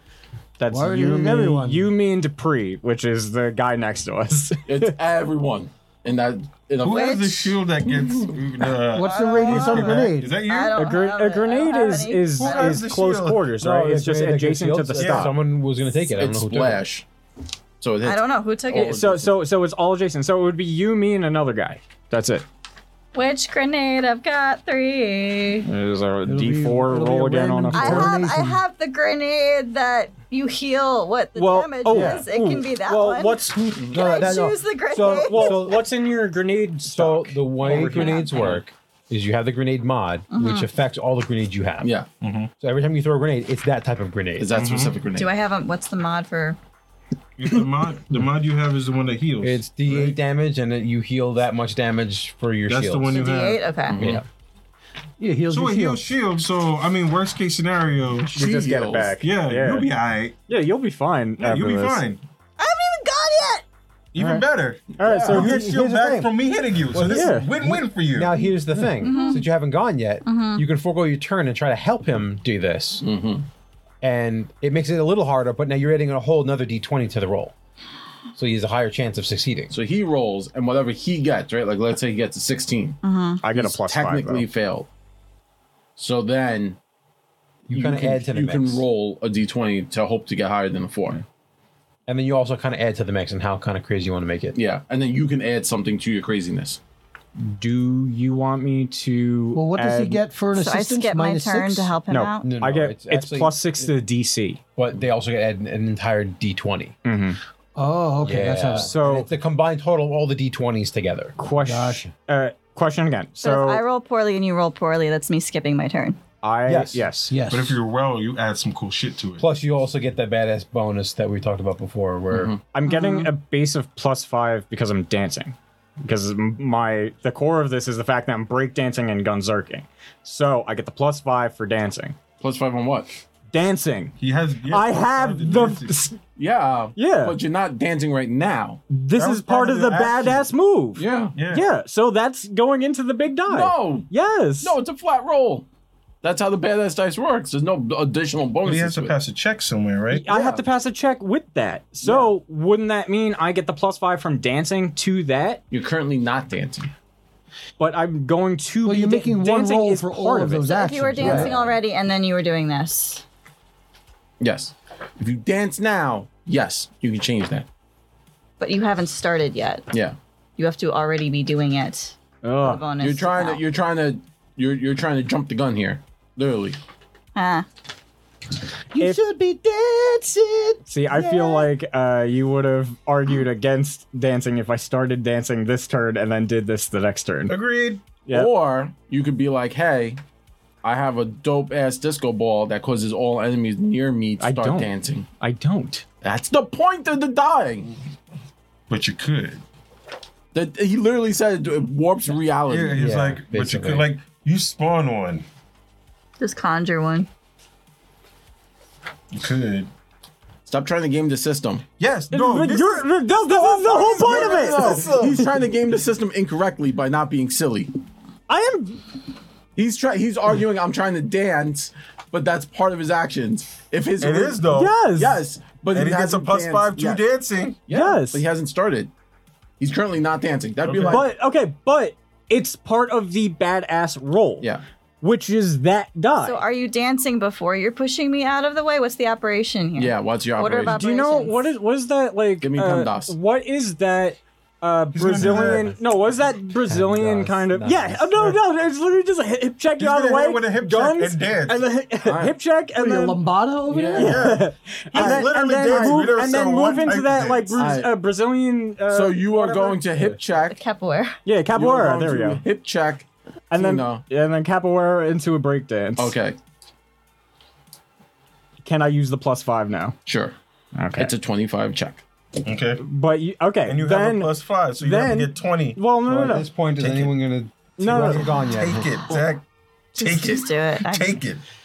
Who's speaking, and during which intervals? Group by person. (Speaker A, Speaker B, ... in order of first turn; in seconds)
Speaker A: 0.6-5.0, 10.7-15.3, 18.7-22.4, 25.6-28.2, 31.4-34.0, 35.1-38.6, 58.3-59.9, 60.5-62.0, 64.2-65.7, 67.0-67.5, 83.4-84.5, 97.4-100.2, 102.1-104.6, 107.0-107.4, 108.8-109.3, 111.4-113.8, 116.4-117.4, 122.7-132.2, 133.5-136.2, 137.0-137.4, 138.9-144.8, 150.1-155.6, 157.8-160.7, 172.4-172.9, 180.9-187.6, 188.3-188.5, 194.4-196.0, 212.3-215.5, 218.5-219.0, 224.7-225.4, 227.9-228.4, 231.1-234.7, 235.2-236.6, 241.0-253.4, 254.1-260.4, 261.4-262.6, 263.7-266.4, 268.8-270.2, 270.9-271.3, 273.0-276.7, 278.0-278.7
Speaker B: 0.7-1.9, 8.9-10.4, 26.2-28.6, 55.2-56.0, 99.5-101.9, 107.8-108.9, 111.6-112.0, 117.3-117.8, 158.8-161.5, 178.9-181.7, 252.9-254.4
Speaker C: 4.7-8.4, 16.0-17.1, 17.8-19.3, 33.8-34.3, 41.8-42.1, 44.4-45.3, 53.9-54.2, 58.3-59.1, 65.0-65.4, 73.0-73.5, 79.7-83.0, 83.5-84.9, 86.0-86.8, 87.7-91.2, 94.5-96.8, 122.3-122.6, 132.4-133.2, 136.3-138.8, 141.0-141.4, 143.5-145.7, 146.2-149.2, 150.3-150.6, 152.0-152.3, 155.7-156.9, 161.2-161.8, 164.4-167.7, 169.9-170.2, 173.0-176.8, 188.3-190.2, 190.8-195.3, 196.2-197.9, 200.5-203.0, 210.7-211.9, 214.0-217.9, 219.8-227.2, 227.9-229.1, 229.8-231.3, 240.0-241.0, 242.6-243.4, 252.2-252.6, 253.9-254.5, 255.2-256.2, 257.8-258.2, 259.1-260.8, 261.7-264.3, 266.2-266.6, 270.3-270.6, 271.2-272.2
Speaker D: 6.8-10.8, 12.4-13.5, 15.0-15.3, 42.2-42.5, 44.5-45.0, 47.4-50.2, 52.7-53.7, 55.5-58.4, 59.2-60.4, 61.4-62.2, 64.1-68.4, 117.5-119.5, 134.2-135.9, 139.2-140.5, 141.3-141.7, 148.6-150.3, 187.5-188.2, 198.9-199.6, 202.7-205.5, 209.3-209.9, 212.0-215.5, 224.2-225.0, 225.9-227.9, 230.9-231.2, 245.1-245.9, 250.0-251.9, 254.2-257.8, 272.6-273.0, 273.9-276.0, 277.0-277.4, 278.1-279.6, 280.1-281.6
Speaker E: 9.0-12.8, 18.0-18.9, 23.1-25.7, 27.7-35.8, 37.7-38.5, 40.3-40.7, 45.1-46.6, 53.1-54.0, 62.6-63.6, 69.0-69.5, 70.2-70.6, 83.0-83.4, 100.5-102.5, 113.4-116.2, 122.9-123.3, 160.7-163.2, 168.6-169.9, 170.6-173.6, 177.3-177.7, 206.4-207.3, 236.4-241.7, 260.6-261.4, 280.2-281.5
Speaker F: 13.6-16.8, 31.9-32.2, 33.9-35.8, 36.9-41.9, 42.6-44.6, 49.4-53.2, 54.0-54.3, 65.3-66.3, 66.9-73.0, 74.0-77.5, 78.3-79.8, 87.7-88.8, 92.1-94.6, 102.4-103.9, 104.8-107.0, 108.2-111.4, 116.7-117.0, 119.4-122.5, 202.9-204.1, 245.4-245.9, 246.9-248.6, 276.2-279.1